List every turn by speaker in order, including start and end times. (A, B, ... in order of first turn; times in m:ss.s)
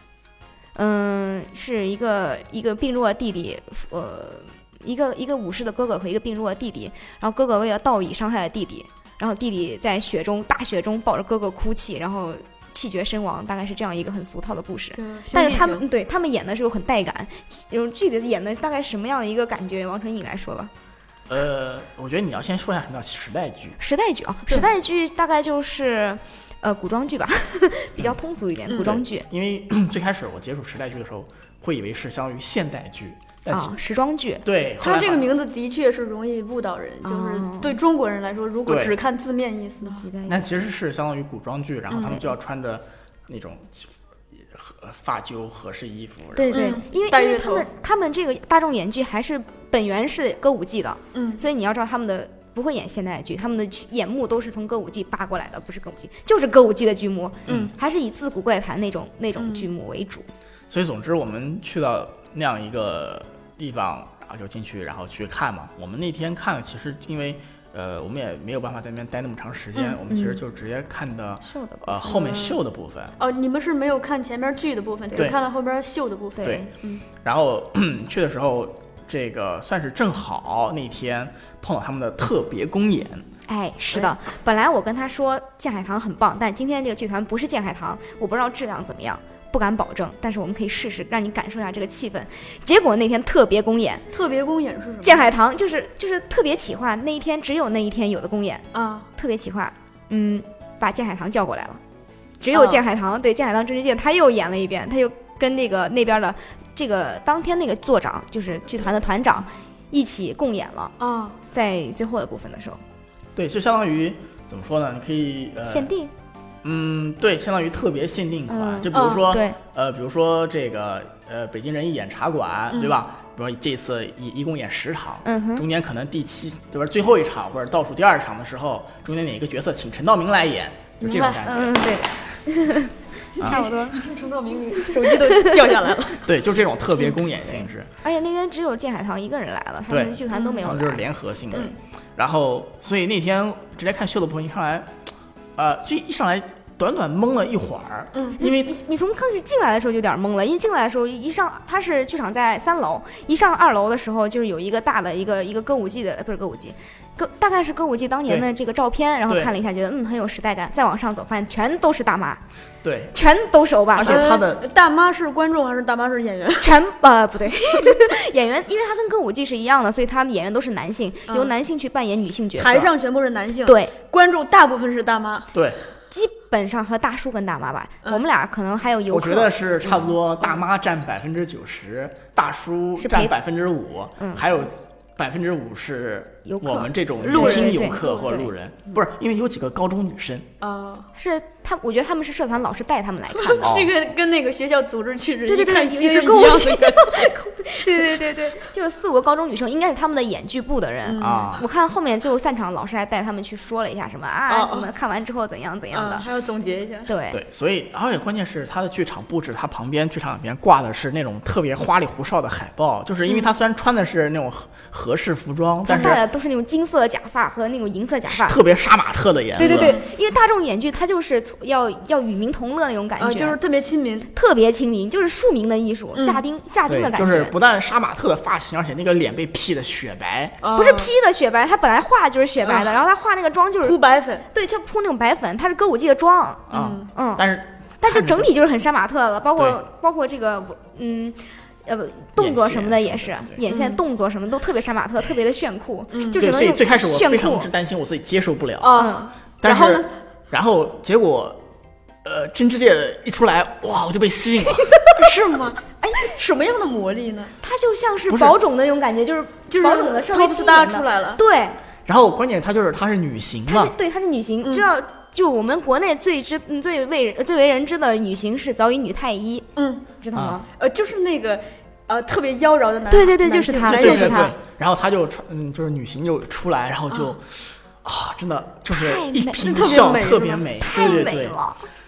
0:00.7-0:20.7 A
0:15.0-0:15.8 B
0:21.3-0:23.8 C
0:23.8-0:29.3 A
0:28.7-0:28.9 B
0:28.8-0:33.8 C
0:33.5-0:34.4 A
0:34.4-0:35.3 C
0:34.8-0:40.1 B
0:37.0-0:37.8 A
0:38.6-0:39.0 C
0:39.8-0:40.6 A
0:40.2-0:43.9 C
0:41.9-0:42.2 B
0:42.0-0:42.2 A
0:44.5-0:46.7 C
0:46.3-1:00.3 A
0:46.5-0:47.7 B
0:51.1-0:51.4 B
0:57.5-0:57.7 C
0:59.4-0:59.7 B
1:00.7-1:13.1 C
1:09.7-1:10.0 B
1:10.1-1:10.4 A
1:11.4-1:12.4 A
1:12.1-1:12.6 B
1:13.2-1:16.5 B
1:16.4-1:17.0 A
1:17.2-1:23.2 C
1:23.5-1:34.1 A
1:34.1-1:35.3 B
1:35.0-1:41.8 A
1:38.7-1:39.1 B
1:42.4-1:50.9 A
1:42.5-1:42.8 B
1:51.0-1:51.4 B
1:51.5-1:52.8 A
1:53.4-1:55.9 C
1:55.6-1:56.1 A
1:56.6-2:11.8 C
1:58.5-1:59.6 A
1:58.9-1:59.3 B
2:02.7-2:03.0 B
2:05.2-2:05.7 A
2:11.0-2:11.5 B
2:11.4-2:14.0 A
2:13.4-2:16.2 B
2:14.8-2:15.6 A
2:16.2-2:17.9 C
2:17.0-2:21.1 A
2:19.9-2:25.0 C
2:20.3-2:20.6 B
2:25.6-2:28.7 C
2:28.1-2:28.4 B
2:28.4-2:42.4 A
2:42.8-2:43.1 C
2:43.1-2:44.3 A
2:44.0-2:44.6 C
2:44.0-2:46.7 B
2:46.6-2:52.9 A
2:51.3-2:51.5 B
2:52.6-2:55.5 B
2:53.6-2:53.9 A
2:55.5-2:55.8 C
2:56.1-3:00.1 A
2:59.1-3:10.5 C
3:03.0-3:03.3 A
3:04.2-3:04.5 A
3:06.4-3:08.5 A
3:07.2-3:08.3 B
3:10.6-3:11.1 B
3:11.1-3:13.8 A
3:13.3-3:17.3 B
3:13.6-3:13.9 C
3:15.5-3:26.2 A
3:21.0-3:21.6 B
3:21.2-3:21.6 C
3:24.5-3:24.9 B
3:25.9-3:27.1 B
3:27.1-3:27.4 A
3:27.3-3:36.2 C
3:35.8-3:38.6 A
3:38.3-3:40.0 C
3:39.6-3:43.6 A
3:39.6-3:40.1 B
3:43.2-3:44.3 B
3:44.3-3:47.6 A
3:46.1-3:46.4 B
3:46.9-3:50.6 C
3:50.6-3:51.1 B
3:50.7-3:54.0 A
3:52.6-3:52.9 B
3:53.8-3:54.5 B
3:54.5-3:57.4 A
3:56.7-3:57.1 B
3:56.7-3:58.5 C
3:58.0-4:07.7 A
4:02.4-4:03.6 C
4:03.6-4:04.0 B
4:06.1-4:06.4 B
4:06.4-4:09.0 C
4:08.8-4:10.1 B
4:08.9-4:09.3 A
4:09.6-4:11.6 C
4:12.2-4:15.0 C
4:15.2-4:17.5 B
4:17.6-4:21.8 A
4:18.3-4:18.6 C
4:19.7-4:21.4 B
4:22.0-4:23.9 C
4:23.6-4:29.7 A
4:24.6-4:24.9 B
4:29.8-4:30.0 B
4:30.2-4:30.6 A
4:30.3-4:30.6 C
4:30.8-4:34.5 B
4:33.1-4:34.5 A
4:33.8-4:41.6 C
4:37.1-4:37.4 B
4:38.9-4:40.2 A
4:39.6-4:41.3 B
4:40.8-4:41.8 A